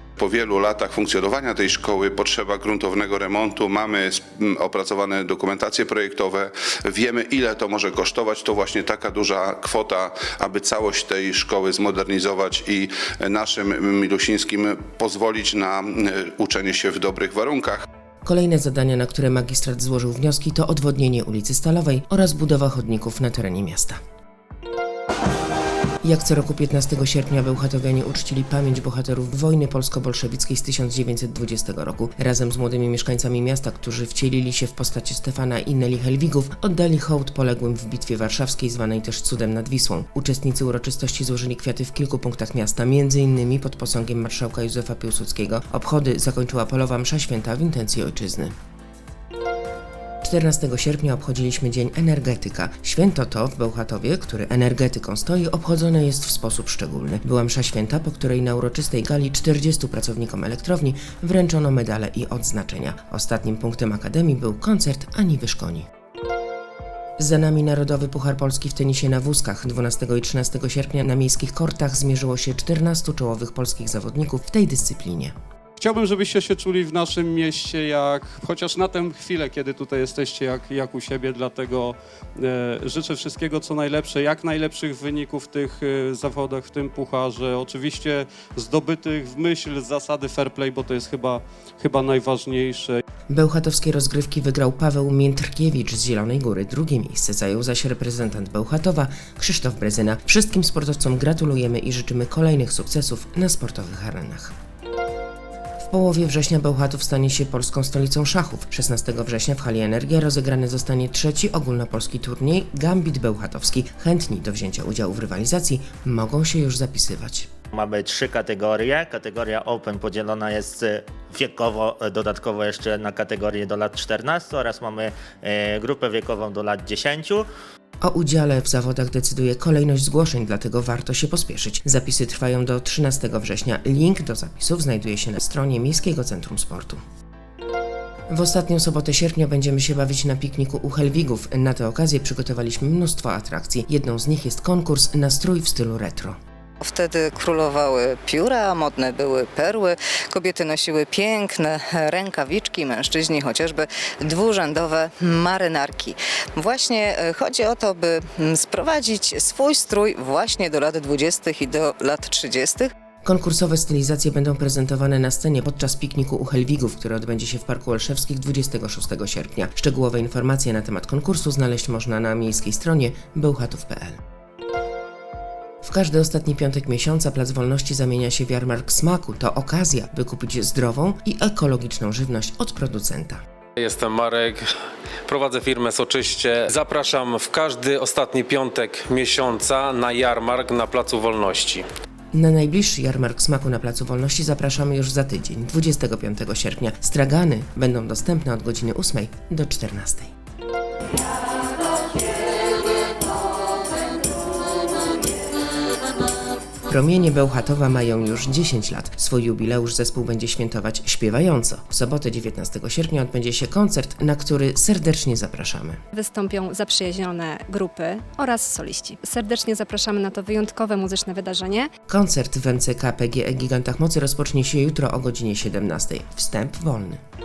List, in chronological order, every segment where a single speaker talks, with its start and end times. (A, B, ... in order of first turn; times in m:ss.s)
0:00.2-0:17.8 A
0:18.2-0:24.0 B
0:26.0-0:48.5 B
0:50.2-1:05.9 B
1:07.2-1:15.3 B
1:15.8-1:33.0 C
1:33.3-1:44.5 B
1:45.8-1:57.5 B
1:57.7-2:07.5 D
2:08.0-2:17.0 B
2:18.3-2:26.4 B
2:26.8-2:42.9 E
2:43.2-2:54.2 B
2:55.8-3:03.4 B
3:03.8-3:04.6 F
3:05.3-3:11.8 F
3:12.3-3:20.3 B
3:26.9-3:36.0 B
3:36.1-3:41.9 G
3:42.1-3:47.2 B